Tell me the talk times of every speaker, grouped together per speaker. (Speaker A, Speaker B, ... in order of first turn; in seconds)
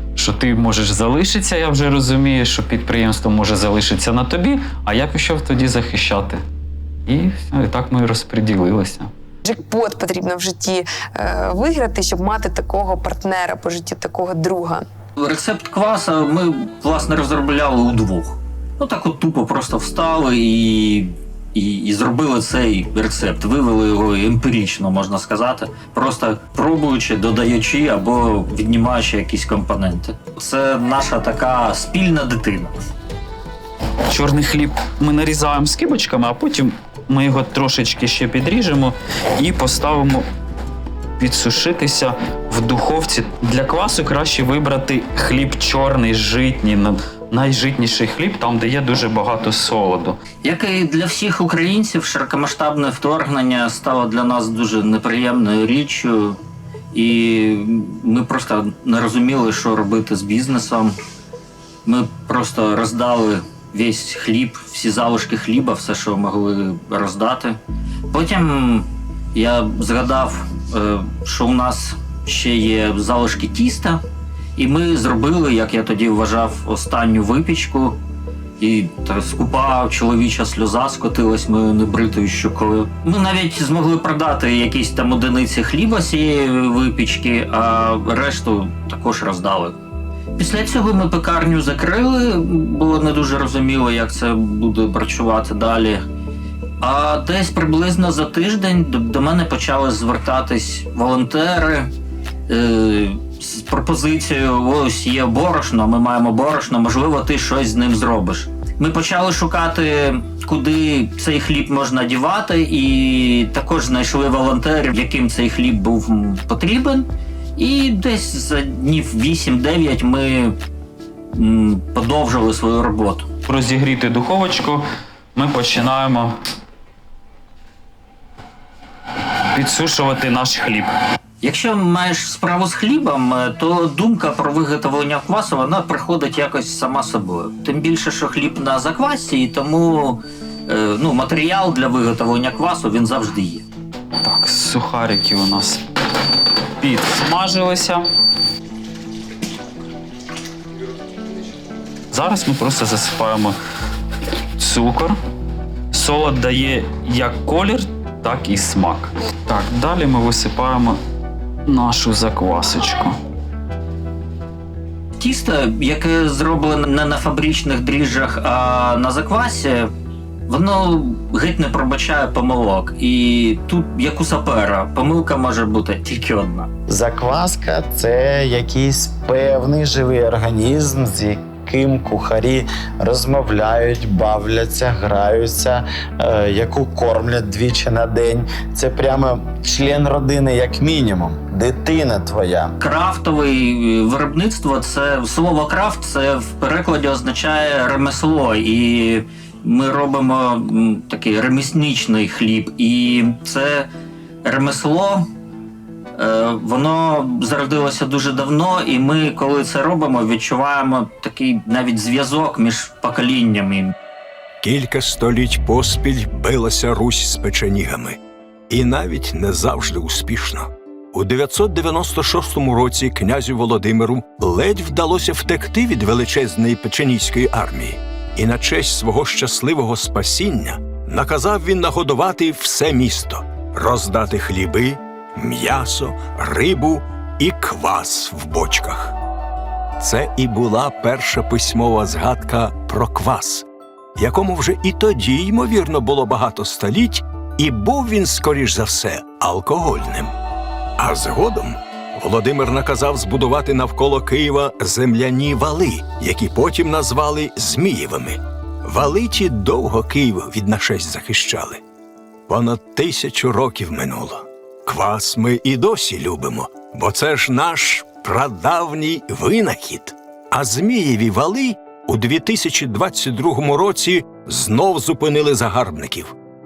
Speaker A: 0.1-6.4, 7.0-9.1, 34.1-40.2, 41.2-50.2, 123.4-124.8, 125.3-126.3, 129.5-130.9, 144.2-145.8, 146.8-148.0, 152.1-153.6, 154.6-155.2, 155.9-161.0, 161.7-163.1
Speaker B: 9.4-14.8
Speaker C: 15.2-32.7, 50.4-56.4, 56.9-61.0, 61.8-67.6, 68.1-74.0, 74.5-78.0, 78.6-89.8, 90.3-96.0, 96.8-101.9, 102.5-120.5, 121.3-123.3, 131.4-143.6, 165.2-169.9, 170.5-176.7, 192.8-203.9, 204.4-205.3, 206.2-213.9
Speaker D: 176.9-192.8
Speaker E: 214.6-218.2, 218.7-239.2, 240.0-250.3, 251.0-261.8, 262.5-276.3